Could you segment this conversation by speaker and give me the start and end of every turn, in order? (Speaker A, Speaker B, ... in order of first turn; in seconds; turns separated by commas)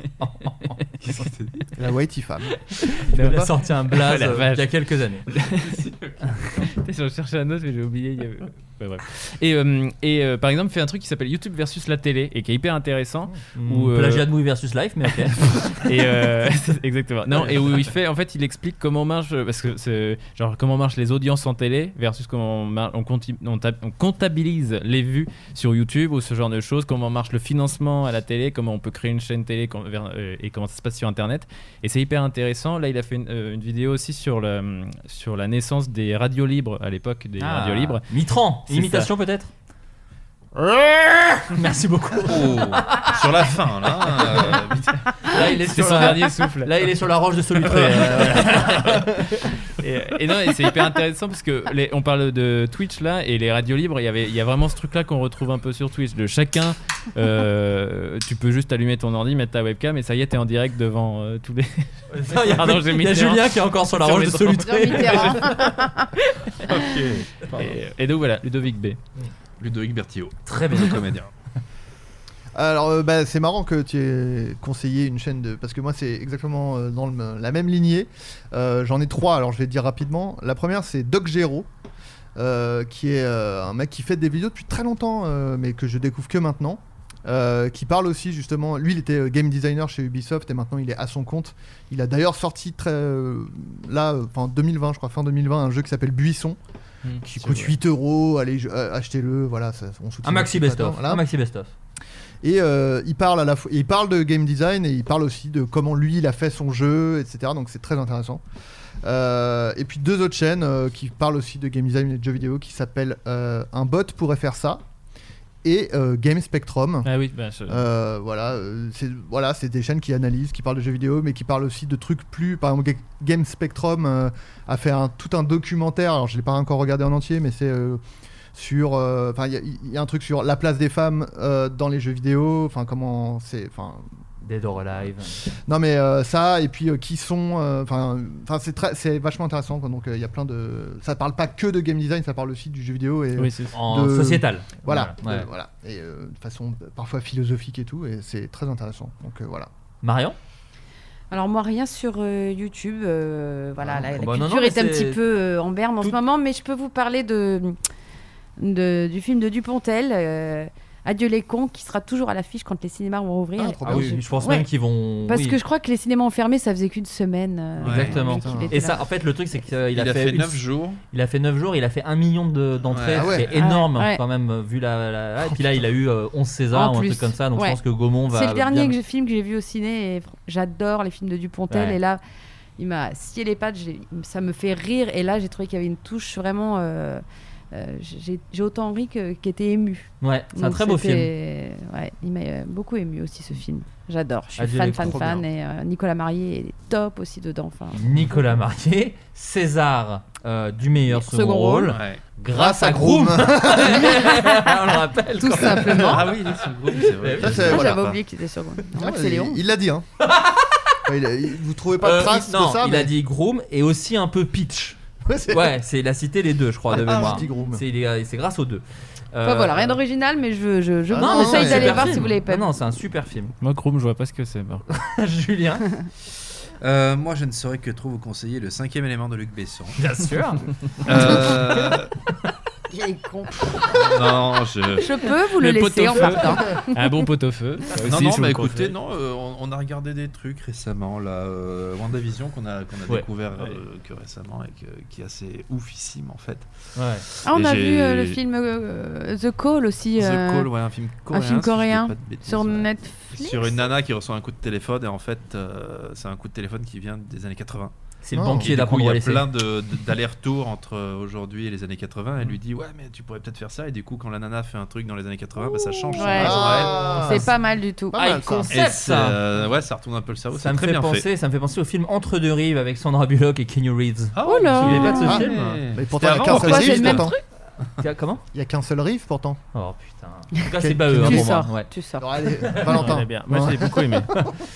Speaker A: 0.2-0.7, Speaker B: 1.0-1.5, Speaker C: 1.8-2.6, Speaker D: 2.7-4.7, Speaker A: 3.0-5.3, Speaker D: 5.3-5.9, Speaker B: 5.8-6.1, Speaker D: 6.5-14.3, Speaker A: 13.5-15.8, Speaker D: 15.4-38.0, Speaker A: 37.4-39.5, Speaker D: 38.7-39.1, Speaker A: 40.6-43.1, Speaker B: 42.2-44.9, Speaker A: 44.0-44.5, Speaker A: 45.2-49.5, Speaker D: 45.3-46.7, Speaker D: 47.6-65.6, Speaker A: 62.1-65.5, Speaker E: 64.6-66.1, Speaker B: 66.7-67.7, Speaker D: 67.5-69.0, Speaker B: 69.6-71.3, Speaker A: 70.5-71.0, Speaker C: 72.5-81.7, Speaker C: 82.3-96.6, Speaker D: 97.0-97.7, Speaker C: 97.2-101.2, Speaker A: 100.2-101.7, Speaker C: 102.4-108.4, Speaker C: 109.0-114.8, Speaker C: 115.6-117.1, Speaker D: 117.0-117.8, Speaker C: 117.7-128.0, Speaker C: 128.5-134.1, Speaker A: 134.4-135.4, Speaker C: 135.4-149.7, Speaker D: 143.4-143.7, Speaker A: 143.7-145.5, Speaker A: 150.0-150.3, Speaker E: 151.3-157.8, Speaker C: 153.8-154.2, Speaker A: 154.1-155.2, Speaker E: 158.6-164.7, Speaker C: 163.6-164.2, Speaker A: 163.8-165.6, Speaker E: 165.2-169.0, Speaker B: 167.8-168.2, Speaker A: 167.8-178.9, Speaker C: 168.1-168.7, Speaker B: 169.9-171.0, Speaker B: 172.9-173.4, Speaker C: 173.1-173.6, Speaker E: 173.6-174.2, Speaker E: 176.7-182.2, Speaker A: 181.7-182.0, Speaker E: 182.8-198.0, Speaker A: 190.2-191.3, Speaker A: 194.6-195.4, Speaker C: 195.0-195.4, Speaker A: 197.9-206.4, Speaker E: 201.1-202.0, Speaker B: 201.9-202.2, Speaker C: 202.5-204.4, Speaker E: 204.3-204.8, Speaker E: 205.4-206.3, Speaker B: 205.9-208.2, Speaker A: 207.1-208.0, Speaker C: 207.4-207.9, Speaker E: 207.6-209.6, Speaker C: 208.9-210.1, Speaker A: 210.2-210.8, Speaker C: 211.1-213.1, Speaker A: 212.0-220.0, Speaker C: 215.2-215.7, Speaker C: 216.9-217.8, Speaker B: 217.0-217.4, Speaker E: 219.4-222.7, Speaker C: 221.1-222.2, Speaker A: 221.2-223.5, Speaker D: 223.6-224.8, Speaker A: 224.9-225.9, Speaker B: 226.8-230.0, Speaker A: 230.0-231.9, Speaker B: 231.0-232.1, Speaker E: 232.9-234.4, Speaker B: 233.9-235.1, Speaker E: 234.9-237.1, Speaker D: 235.5-238.9, Speaker B: 238.1-246.7, Speaker A: 246.9-247.2, Speaker B: 247.3-248.4, Speaker E: 247.4-250.7, Speaker B: 250.1-257.9, Speaker E: 251.3-253.8, Speaker A: 258.2-259.5, Speaker C: 258.3-258.7, Speaker B: 258.4-267.3, Speaker E: 265.7-268.1, Speaker C: 266.2-267.5, Speaker C: 268.1-268.7, Speaker A: 268.1-269.4, Speaker B: 268.7-271.3, Speaker A: 270.5-275.8, Speaker B: 274.3-277.3, Speaker E: 274.4-275.5, Speaker C: 275.2-277.4, Speaker E: 276.4-277.4, Speaker A: 278.0-278.4, Speaker C: 278.5-279.6, Speaker A: 279.7-281.9, Speaker C: 280.7-284.6, Speaker E: 281.1-282.3, Speaker D: 282.8-284.3